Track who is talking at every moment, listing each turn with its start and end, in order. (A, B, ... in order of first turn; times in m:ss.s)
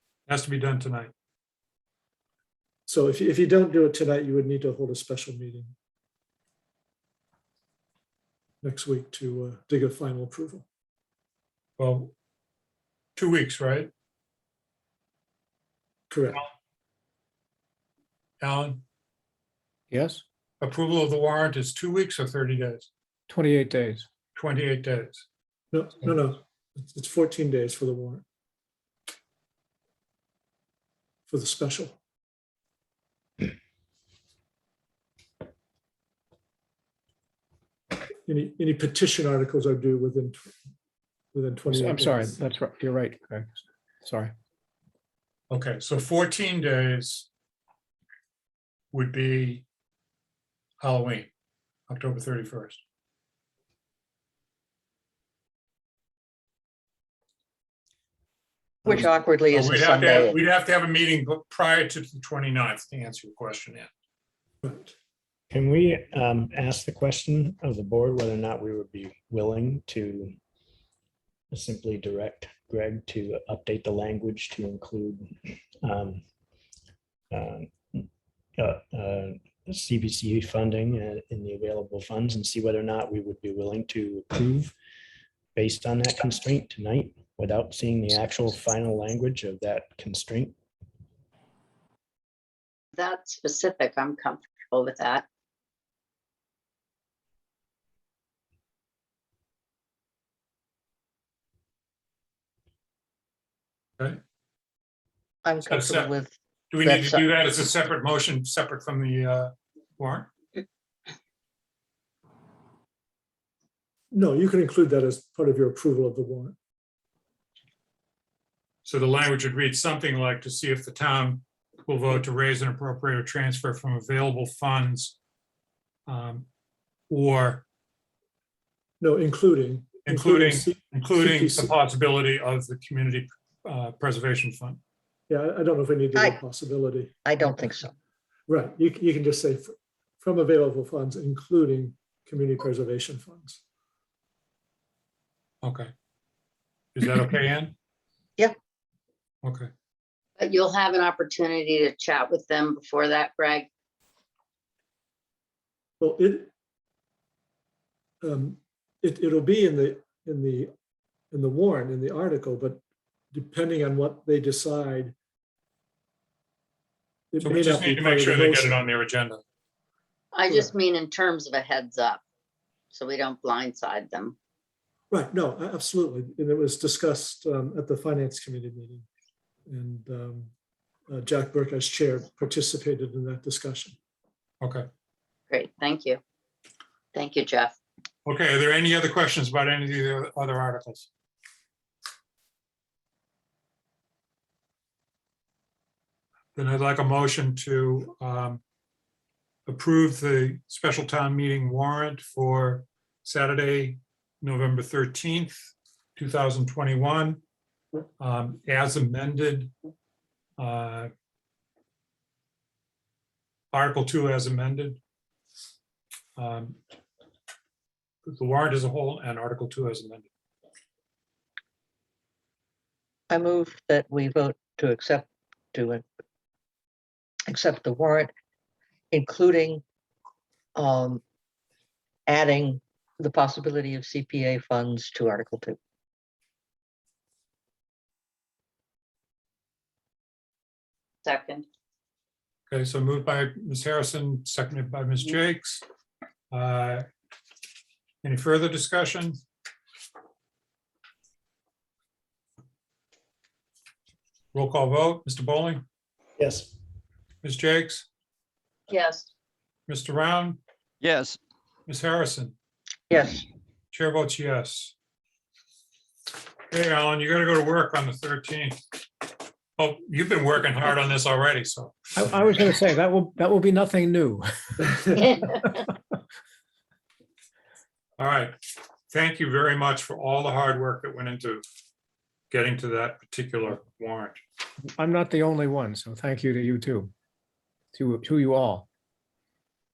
0:00.3-0:01.1 A
0:02.9-0:05.7 B
0:08.6-0:10.6 B
0:11.8-0:12.1 A
0:13.2-0:13.9 A
0:16.1-0:16.4 B
0:18.4-0:18.8 A
0:19.9-0:20.2 C
0:20.6-0:22.9 A
0:23.3-0:24.1 C
0:24.4-0:25.2 A
0:25.7-0:28.2 B
0:31.3-0:32.0 B
0:38.2-0:40.5 B
0:41.3-0:42.4 B
0:41.7-0:43.5 C
0:44.0-0:44.3 C
0:45.5-0:47.3 A
0:48.9-0:49.6 A
0:50.8-0:51.3 A
0:51.9-0:52.8 A
0:58.8-1:00.3 D
0:59.0-1:03.9 A
0:59.8-1:00.3 E
1:04.6-1:04.9 B
1:05.5-1:10.4 F
1:11.5-1:16.2 F
1:17.3-1:24.7 F
1:25.6-1:30.6 F
1:32.9-1:35.3 E
1:45.4-1:47.2 D
1:45.7-1:46.1 A
1:46.7-1:50.3 A
1:54.1-1:56.6 B
1:58.8-2:05.2 A
2:06.1-2:06.5 A
2:07.1-2:07.6 A
2:09.0-2:11.7 B
2:10.0-2:14.8 A
2:15.3-2:17.1 B
2:17.2-2:17.9 D
2:18.5-2:23.6 B
2:25.6-2:25.9 A
2:27.0-2:27.7 A
2:29.4-2:29.7 A
2:30.4-2:33.7 E
2:36.0-2:36.5 B
2:38.2-2:40.7 B
2:41.3-2:42.8 B
2:43.3-2:45.1 B
2:47.3-2:48.8 B
2:47.4-2:49.4 A
2:50.3-2:52.2 E
2:52.9-2:54.4 E
2:55.1-2:59.1 B
2:59.7-3:00.5 B
3:01.1-3:04.0 B
3:04.6-3:04.9 A
3:05.5-3:06.2 E
3:07.1-3:07.8 E
3:08.2-3:11.1 A
3:16.6-3:18.6 A
3:19.7-3:27.4 A
3:28.2-3:29.7 A
3:30.6-3:31.1 A
3:33.7-3:35.0 A
3:36.4-3:36.8 A
3:38.2-3:40.3 A
3:43.3-3:46.0 D
3:47.5-3:48.3 D
3:49.1-3:49.8 D
3:50.8-3:51.2 D
3:52.3-3:55.8 D
4:01.2-4:01.7 E
4:02.7-4:05.8 A
4:06.5-4:07.0 A
4:08.2-4:09.4 A
4:14.5-4:15.8 A
4:16.4-4:16.8 F
4:17.4-4:18.1 A
4:18.9-4:19.3 E
4:19.9-4:20.6 A
4:21.9-4:22.6 A
4:23.1-4:23.4 D
4:23.9-4:24.9 A
4:26.7-4:28.8 A
4:29.8-4:32.0 A
4:32.2-4:34.9 C
4:38.2-4:38.6 A
4:39.1-4:41.6 A
4:42.5-4:44.4 A
4:45.0-4:47.1 C
4:47.9-4:48.9 C